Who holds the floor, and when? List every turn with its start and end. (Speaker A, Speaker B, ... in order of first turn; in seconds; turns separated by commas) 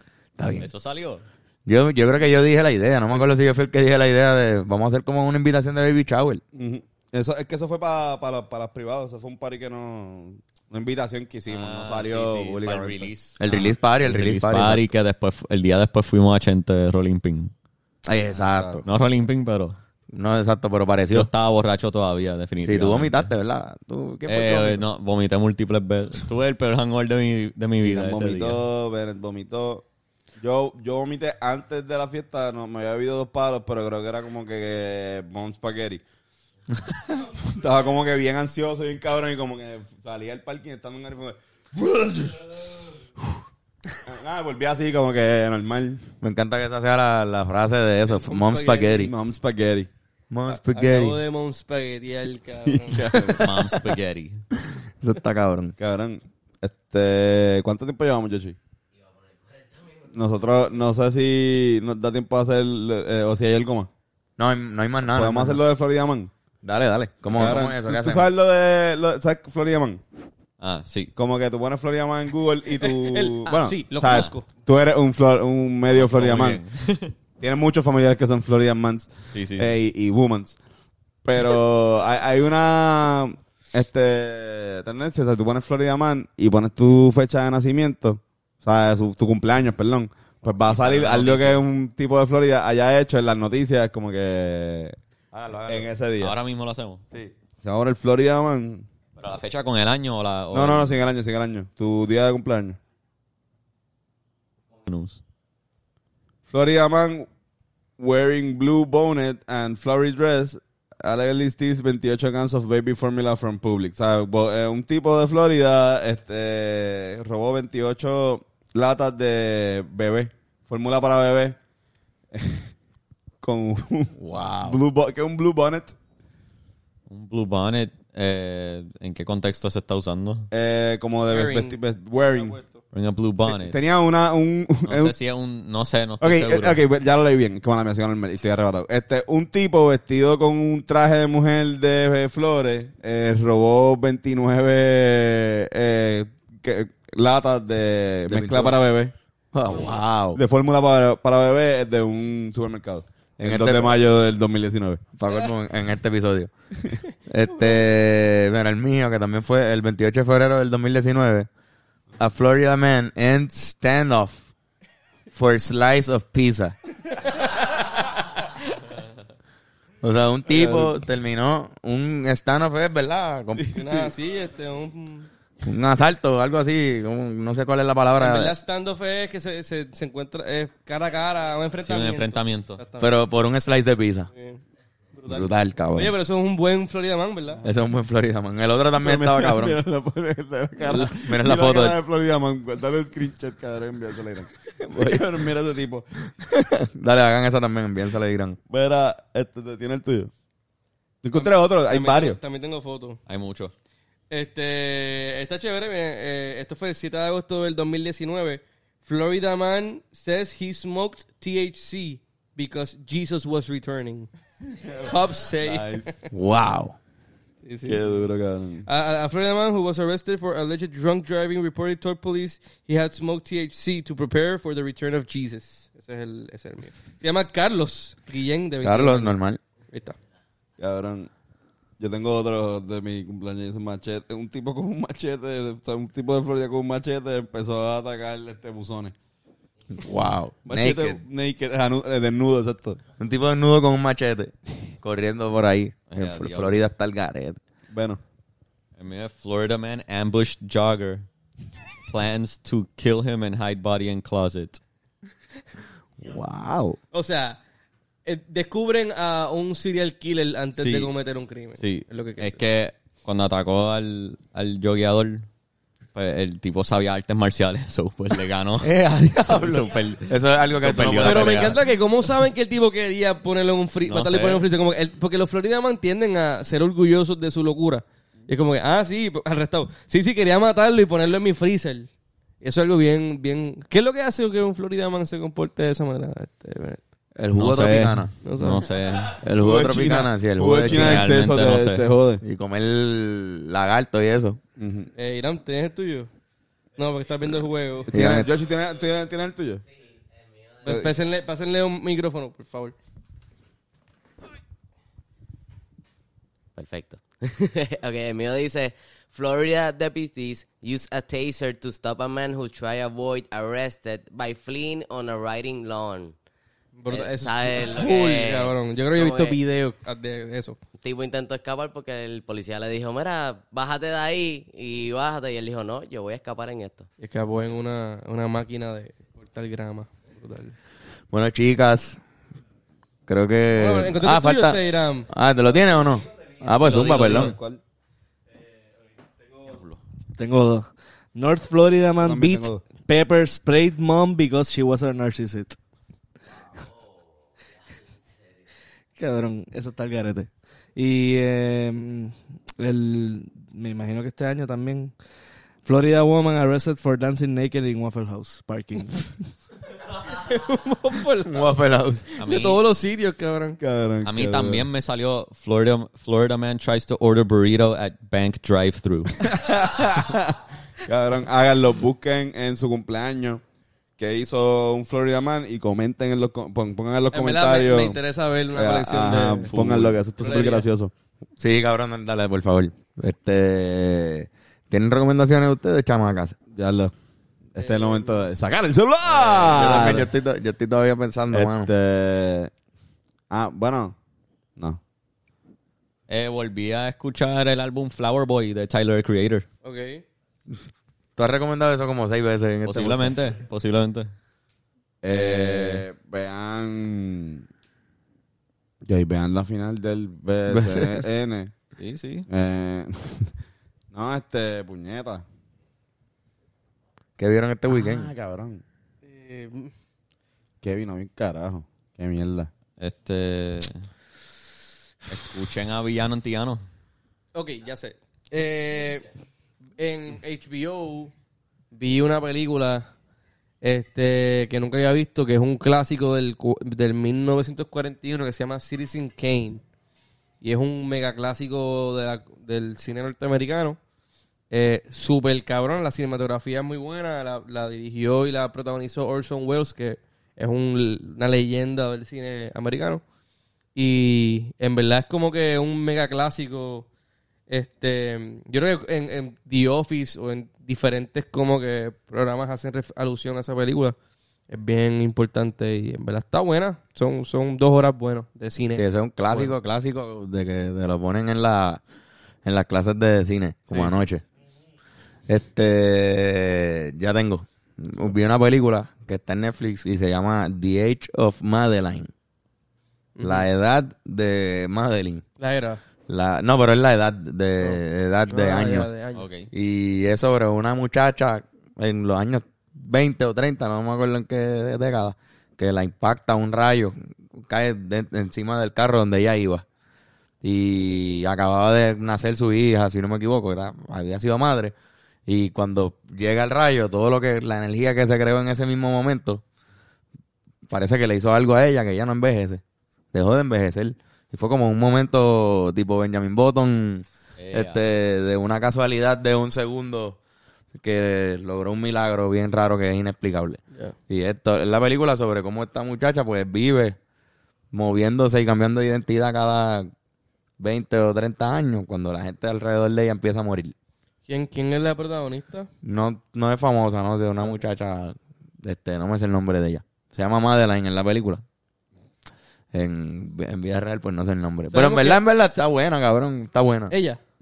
Speaker A: 0.4-0.7, Speaker B: 0.6-1.2, Speaker A: 1.7-6.4, Speaker C: 6.5-13.6, Speaker B: 11.5-17.5, Speaker A: 13.4-14.9, Speaker A: 18.0-18.8, Speaker C: 18.4-18.8, Speaker B: 18.8-19.8, Speaker A: 20.1-21.3, Speaker B: 21.1-23.3, Speaker A: 22.6-24.8, Speaker B: 24.3-28.6, Speaker C: 27.8-29.9, Speaker C: 30.4-36.0, Speaker C: 37.0-42.7, Speaker C: 44.0-46.1, Speaker A: 46.2-49.1, Speaker D: 48.1-49.1, Speaker C: 49.0-49.9, Speaker A: 50.3-51.2, Speaker D: 50.5-53.4, Speaker C: 52.6-53.5, Speaker B: 53.3-54.4, Speaker A: 54.6-55.8, Speaker C: 55.8-58.6, Speaker C: 60.1-63.9, Speaker A: 64.4-65.6, Speaker C: 65.1-66.3, Speaker A: 66.6-68.3, Speaker C: 67.3-70.0, Speaker B: 70.6-71.1, Speaker C: 71.1-76.6, Speaker D: 72.8-74.5, Speaker B: 75.9-77.1, Speaker C: 77.4-80.6, Speaker B: 79.3-79.7, Speaker C: 81.2-95.0, Speaker B: 90.6-91.6, Speaker A: 95.3-95.9, Speaker C: 95.7-96.3, Speaker B: 96.2-97.0, Speaker C: 97.6-98.9, Speaker B: 99.2-101.0, Speaker C: 100.5-102.8, Speaker B: 104.8-105.2, Speaker C: 106.5-107.3, Speaker C: 108.0-121.6, Speaker C: 122.3-122.7, Speaker C: 123.4-124.1, Speaker A: 124.2-124.8, Speaker C: 124.6-125.9, Speaker B: 127.1-130.5, Speaker C: 130.5-132.6, Speaker D: 131.3-131.8, Speaker D: 132.3-132.8, Speaker B: 132.9-133.8, Speaker C: 133.5-135.1, Speaker B: 134.9-136.8, Speaker C: 136.2-149.1, Speaker A: 148.3-148.8, Speaker A: 149.5-150.4, Speaker C: 150.3-155.0, Speaker A: 153.4-154.0, Speaker A: 155.2-156.5, Speaker A: 157.3-161.5, Speaker A: 162.2-164.4, Speaker A: 165.3-166.7, Speaker A: 170.0-173.7, Speaker C: 170.5-171.0, Speaker C: 173.6-174.1, Speaker D: 173.7-175.3, Speaker A: 175.6-178.5, Speaker D: 178.2-183.1, Speaker B: 181.8-182.8, Speaker A: 183.0-184.3, Speaker D: 184.3-184.6, Speaker D: 185.1-187.6, Speaker A: 185.3-186.1, Speaker A: 187.6-189.8, Speaker C: 189.0-196.1, Speaker A: 190.8-192.0, Speaker A: 194.8-195.3, Speaker A: 196.4-198.6, Speaker C: 198.7-200.3, Speaker C: 201.2-202.4, Speaker D: 201.3-203.2, Speaker B: 203.3-203.7, Speaker D: 204.3-214.3, Speaker C: 214.7-216.1, Speaker D: 215.0-216.2, Speaker A: 216.3-216.9, Speaker D: 217.6-218.2, Speaker C: 217.8-218.9, Speaker D: 218.8-229.3, Speaker A: 228.8-229.6, Speaker D: 229.9-230.2, Speaker C: 230.8-231.3, Speaker C: 232.0-239.1, Speaker A: 239.9-241.2, Speaker C: 240.7-243.0, Speaker A: 243.2-247.6, Speaker B: 246.1-246.8, Speaker C: 247.9-248.2, Speaker B: 249.0-251.2, Speaker B: 252.1-254.8, Speaker A: 256.2-257.0, Speaker D: 257.1-257.6, Speaker D: 258.2-262.6, Speaker B: 261.8-265.4, Speaker B: 266.1-268.9, Speaker A: 268.8-271.7, Speaker B: 269.5-271.7, Speaker D: 271.2-282.1, Speaker B: 274.1-274.6, Speaker D: 282.6-287.0, Speaker A: 287.4-288.3, Speaker B: 287.6-289.4, Speaker D: 288.4-288.8, Speaker A: 289.4-291.3, Speaker C: 289.6-292.4, Speaker B: 290.8-292.0, Speaker A: 292.4-294.6, Speaker C: 294.8-295.1, Speaker D: 295.1-296.3, Speaker D: 296.9-298.1, Speaker C: 298.1-299.8, Speaker A: 298.1-298.5, Speaker E: 300.2-300.7, Speaker D: 300.8-302.9, Speaker C: 300.9-301.1, Speaker E: 306.8-316.3, Speaker D: 317.0-320.8, Speaker E: 317.1-319.6, Speaker E: 321.0-327.1, Speaker D: 327.2-330.7, Speaker A: 331.3-332.2, Speaker A: 333.3-337.6, Speaker D: 333.8-335.3, Speaker C: 336.8-337.8, Speaker B: 339.6-340.0, Speaker F: 340.4-345.8, Speaker C: 342.2-342.8, Speaker F: 349.1-355.1, Speaker F: 355.8-359.5, Speaker D: 360.3-361.7, Speaker A: 361.5-362.2, Speaker D: 362.3-363.8, Speaker B: 362.4-362.8, Speaker C: 363.8-364.9, Speaker B: 364.2-369.5, Speaker C: 369.4-373.6, Speaker C: 374.2-378.2, Speaker D: 377.3-379.7, Speaker C: 378.7-381.1, Speaker B: 379.6-380.2, Speaker D: 380.4-380.9, Speaker A: 381.6-386.6, Speaker C: 386.7-387.1, Speaker C: 387.7-390.3, Speaker D: 387.8-388.5, Speaker A: 389.3-391.9, Speaker C: 391.5-392.7, Speaker C: 393.5-394.2, Speaker B: 396.3-399.6, Speaker D: 399.8-400.2, Speaker A: 401.4-403.3, Speaker B: 402.8-404.3, Speaker C: 405.2-407.6, Speaker B: 405.3-406.0, Speaker C: 409.0-411.7, Speaker A: 410.7-411.2, Speaker B: 412.0-412.5, Speaker C: 412.5-413.5, Speaker C: 414.1-415.4, Speaker A: 417.4-418.3, Speaker C: 417.9-418.8, Speaker D: 419.2-419.9, Speaker C: 420.8-422.7, Speaker B: 423.0-424.0, Speaker B: 425.3-426.8, Speaker D: 427.5-429.2, Speaker D: 430.0-431.3, Speaker D: 431.9-433.1, Speaker D: 433.8-439.8, Speaker D: 440.6-444.0, Speaker D: 444.7-453.2, Speaker D: 453.9-457.1, Speaker D: 457.7-464.1, Speaker D: 464.7-469.7, Speaker A: 468.9-472.0, Speaker A: 472.6-474.4, Speaker A: 475.5-482.3, Speaker D: 483.4-483.7, Speaker A: 483.4-485.4, Speaker D: 485.6-486.0, Speaker A: 486.3-489.1, Speaker D: 488.5-489.4, Speaker B: 489.3-489.7, Speaker A: 489.7-499.8, Speaker A: 500.6-504.9, Speaker A: 505.5-509.6, Speaker A: 510.9-512.8, Speaker A: 513.3-520.4, Speaker B: 517.6-518.0, Speaker A: 520.9-527.2, Speaker A: 527.9-530.1, Speaker A: 530.8-533.9, Speaker D: 534.5-535.9, Speaker A: 536.0-541.6, Speaker A: 542.9-547.1, Speaker D: 544.9-545.8, Speaker D: 547.1-547.4